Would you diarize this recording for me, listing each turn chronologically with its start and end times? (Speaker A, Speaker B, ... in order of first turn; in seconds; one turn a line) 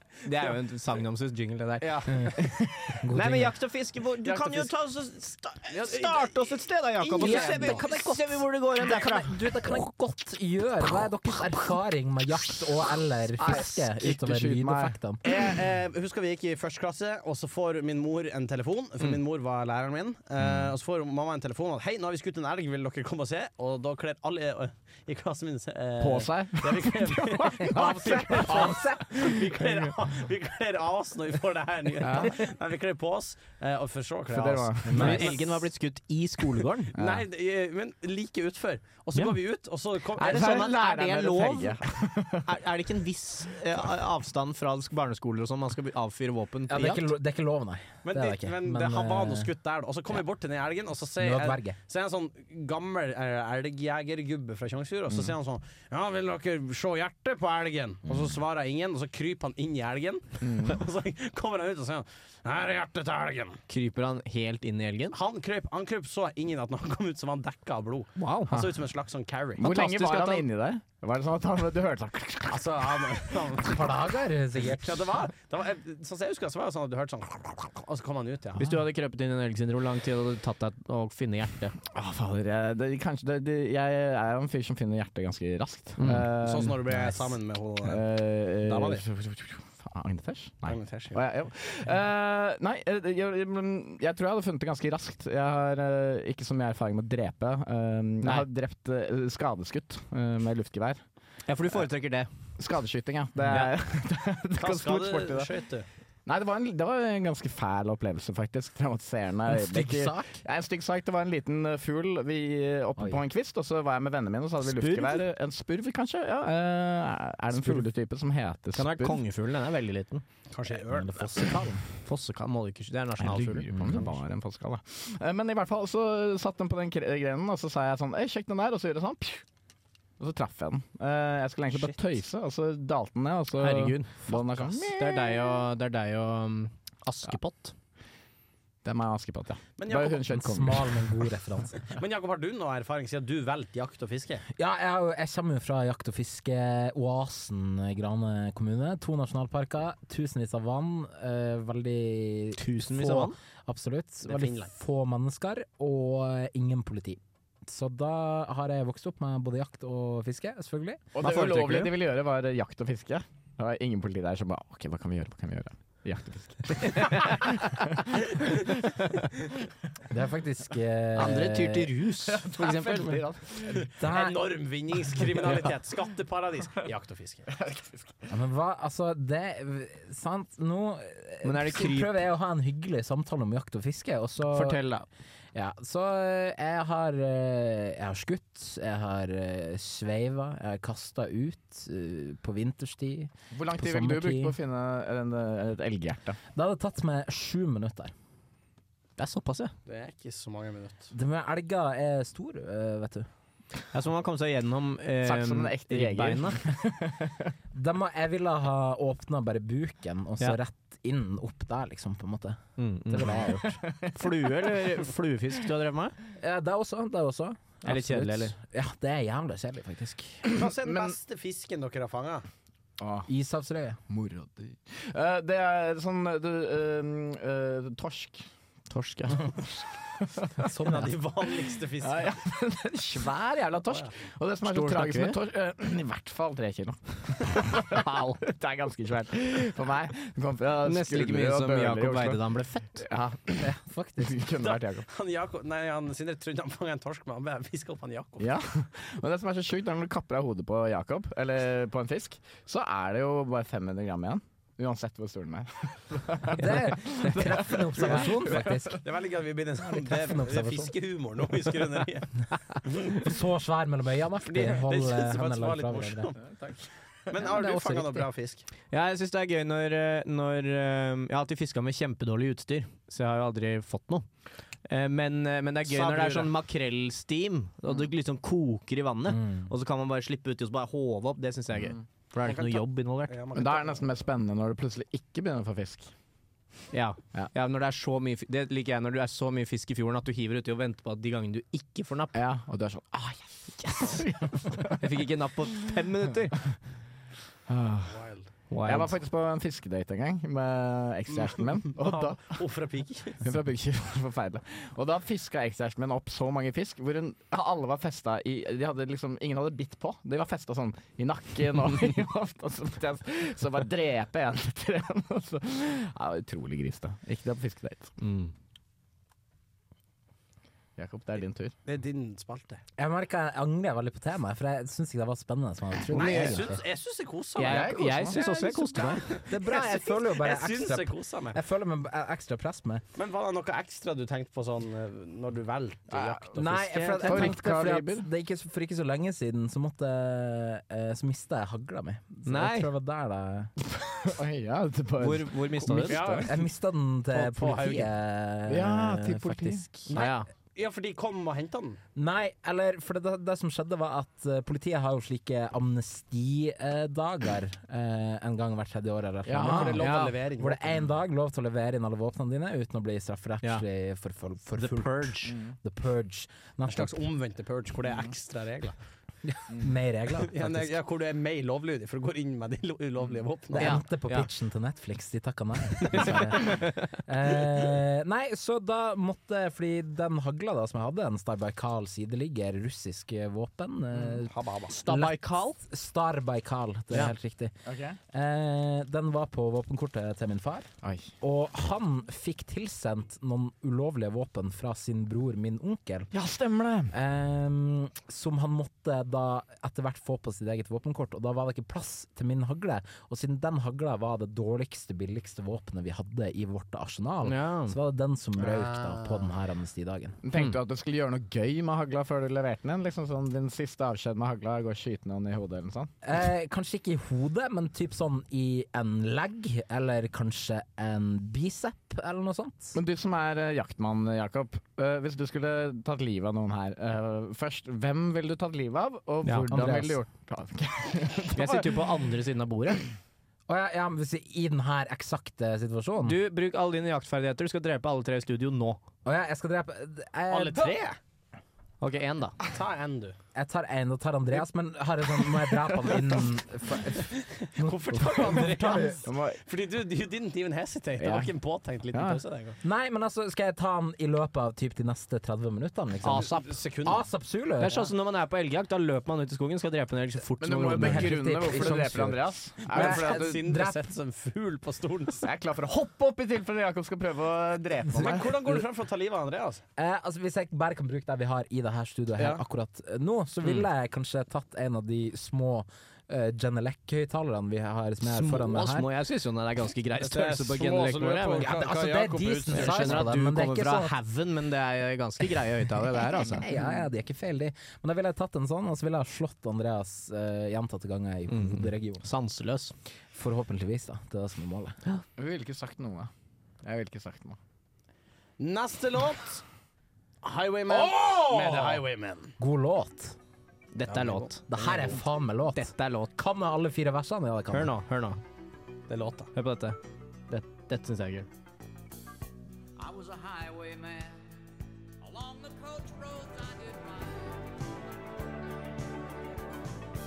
Speaker A: 0.2-2.1
Speaker B: 1.8-2.3
Speaker C: 2.1-3.5
Speaker A: 3.1-9.3
Speaker D: 4.2-4.7
Speaker B: 5.7-6.5
Speaker B: 7.0-7.8
Speaker C: 7.2-8.2
Speaker C: 8.8-15.2
Speaker D: 13.3-15.3
Speaker B: 15.2-35.5
Speaker D: 20.4-20.7
Speaker D: 26.0-29.9
Speaker C: 27.6-29.2
Speaker D: 32.0-32.4
Speaker D: 34.3-35.4
Speaker C: 34.9-35.4
Speaker A: 34.9-36.9
Speaker B: 36.9-40.7
Speaker D: 36.9-37.2
Speaker D: 40.1-42.6
Speaker A: 40.2-41.8
Speaker A: 42.4-47.1
Speaker C: 46.7-49.5
Speaker B: 48.0-63.6
Speaker C: 51.2-51.7
Speaker D: 60.4-60.8
Speaker A: 63.7-65.2
Speaker B: 65.1-69.7
Speaker A: 68.2-68.6
Speaker D: 69.6-73.3
Speaker A: 69.6-70.4
Speaker B: 72.5-78.6
Speaker C: 73.6-75.1
Speaker A: 78.6-81.7
Speaker D: 81.9-87.1
Speaker A: 86.0-86.2
Speaker B: 86.4-88.1
Speaker D: 87.8-101.0
Speaker B: 88.6-89.0
Speaker B: 90.7-91.2
Speaker A: 101.5-102.3
Speaker D: 102.6-105.5
Speaker A: 103.5-103.7
Speaker B: 104.6-105.9
Speaker D: 106.2-119.2
Speaker C: 109.5-110.4
Speaker A: 114.6-115.2
Speaker A: 118.7-120.2
Speaker B: 120.5-121.5
Speaker C: 120.8-121.8
Speaker A: 122.0-124.1
Speaker D: 123.2-129.4
Speaker D: 130.2-135.6
Speaker A: 133.6-134.3
Speaker A: 134.8-137.7
Speaker D: 138.8-141.2
Speaker B: 139.8-140.3
Speaker C: 140.3-141.9
Speaker B: 141.8-144.4
Speaker C: 144.6-161.1
Speaker A: 152.6-153.4
Speaker B: 154.2-154.7
Speaker D: 161.1-168.7
Speaker A: 161.2-162.0
Speaker C: 170.1-171.9
Speaker A: 171.1-173.2
Speaker D: 172.4-173.8
Speaker B: 173.6-177.5
Speaker C: 173.8-174.4
Speaker D: 177.5-178.2
Speaker C: 178.3-184.8
Speaker A: 181.4-182.1
Speaker A: 184.5-185.1
Speaker C: 185.5-194.6
Speaker D: 193.5-196.4
Speaker C: 196.5-198.1
Speaker A: 199.2-199.7
Speaker B: 199.8-201.1
Speaker C: 201.1-203.3
Speaker A: 203.9-206.6
Speaker D: 205.2-207.5
Speaker C: 207.7-213.8
Speaker A: 212.8-213.6
Speaker D: 213.4-214.2
Speaker A: 214.1-216.1
Speaker C: 216.4-220.5
Speaker A: 217.8-218.5
Speaker D: 220.5-221.2
Speaker B: 220.5-222.4
Speaker D: 223.0-223.3
Speaker C: 223.3-224.1
Speaker D: 224.1-228.5
Speaker A: 228.9-229.5
Speaker D: 230.2-230.7
Speaker C: 230.6-231.1
Speaker B: 230.6-232.4
Speaker D: 231.5-242.4
Speaker A: 234.7-235.4
Speaker A: 240.8-243.0
Speaker D: 242.9-245.1
Speaker C: 243.6-244.4
Speaker B: 244.6-248.5
Speaker D: 248.4-258.9
Speaker C: 256.5-259.0
Speaker B: 258.1-263.2
Speaker C: 259.8-260.9
Speaker C: 263.0-266.3
Speaker B: 264.4-266.4
Speaker B: 267.3-268.6
Speaker C: 267.4-268.3
Speaker A: 268.9-274.2
Speaker A: 274.9-283.3
Speaker B: 275.8-276.5
Speaker C: 279.3-279.6
Speaker B: 282.4-284.1
Speaker D: 283.5-286.1
Speaker A: 286.9-292.3
Speaker D: 292.3-295.1
Speaker A: 294.9-296.6
Speaker D: 297.7-298.1
Speaker B: 298.1-298.5
Speaker A: 298.7-299.1
Speaker D: 298.8-302.6
Speaker B: 301.4-303.5
Speaker D: 303.4-318.1
Speaker A: 318.2-318.5
Speaker D: 321.0-321.7
Speaker B: 321.8-322.8
Speaker C: 323.0-326.8
Speaker B: 326.1-331.6
Speaker A: 326.2-326.5
Speaker A: 327.6-329.3
Speaker D: 327.6-328.4
Speaker C: 329.5-333.0
Speaker B: 333.1-337.5
Speaker D: 336.1-338.3
Speaker C: 336.5-343.7
Speaker A: 342.4-342.9
Speaker D: 344.0-346.5
Speaker A: 345.2-346.2
Speaker B: 346.1-346.7
Speaker C: 346.4-350.3
Speaker B: 347.3-348.1
Speaker D: 348.7-349.9
Speaker B: 350.1-352.0
Speaker A: 350.1-350.5
Speaker C: 352.1-367.1
Speaker D: 359.4-360.2
Speaker B: 359.6-361.1
Speaker A: 360.0-360.3
Speaker A: 364.8-365.6
Speaker D: 365.5-365.7
Speaker B: 366.9-368.9
Speaker C: 369.4-370.9
Speaker B: 370.4-374.0
Speaker C: 373.7-387.7
Speaker A: 373.8-374.5
Speaker B: 384.5-384.9
Speaker A: 384.9-385.8
Speaker D: 387.8-388.2
Speaker C: 388.3-390.9
Speaker D: 391.0-391.3
Speaker C: 391.4-396.3
Speaker D: 396.3-397.1
Speaker C: 397.1-410.4
Speaker A: 407.4-408.0
Speaker B: 408.6-409.5
Speaker D: 410.4-416.1
Speaker C: 416.2-422.9
Speaker D: 422.9-432.0
Speaker A: 429.4-429.7
Speaker C: 429.7-430.2
Speaker A: 431.5-433.0
Speaker C: 433.7-436.4
Speaker A: 436.2-439.0
Speaker C: 439.2-441.0
Speaker B: 440.5-441.2
Speaker A: 442.0-442.6
Speaker B: 442.6-443.4
Speaker C: 443.5-449.2
Speaker D: 445.6-446.4
Speaker B: 447.6-452.8
Speaker D: 449.2-449.6
Speaker D: 451.2-451.5
Speaker D: 452.1-452.4
Speaker C: 452.8-458.1
Speaker A: 456.2-456.7
Speaker B: 456.3-457.2
Speaker A: 457.8-461.4
Speaker D: 460.6-463.6
Speaker C: 460.9-464.0
Speaker B: 462.8-465.5
Speaker D: 465.4-468.5
Speaker B: 468.1-469.8
Speaker C: 468.2-468.8
Speaker C: 470.0-479.1
Speaker B: 472.4-472.6
Speaker A: 473.6-473.9
Speaker A: 478.2-481.7
Speaker B: 480.2-483.3
Speaker C: 481.6-484.1
Speaker A: 482.7-486.6
Speaker C: 486.4-492.2
Speaker A: 491.5-492.9
Speaker C: 493.3-495.0
Speaker D: 495.4-496.3
Speaker D: 496.8-497.6
Speaker B: 498.6-499.6
Speaker B: 500.4-502.5
Speaker C: 502.6-503.4
Speaker A: 503.9-504.6
Speaker B: 504.1-505.2
Speaker C: 504.7-507.9
Speaker A: 505.7-506.3
Speaker A: 507.7-508.4
Speaker B: 509.1-509.5
Speaker A: 509.5-510.0
Speaker A: 510.5-511.5
Speaker E: 513.0-514.4
Speaker E: 515.2-517.5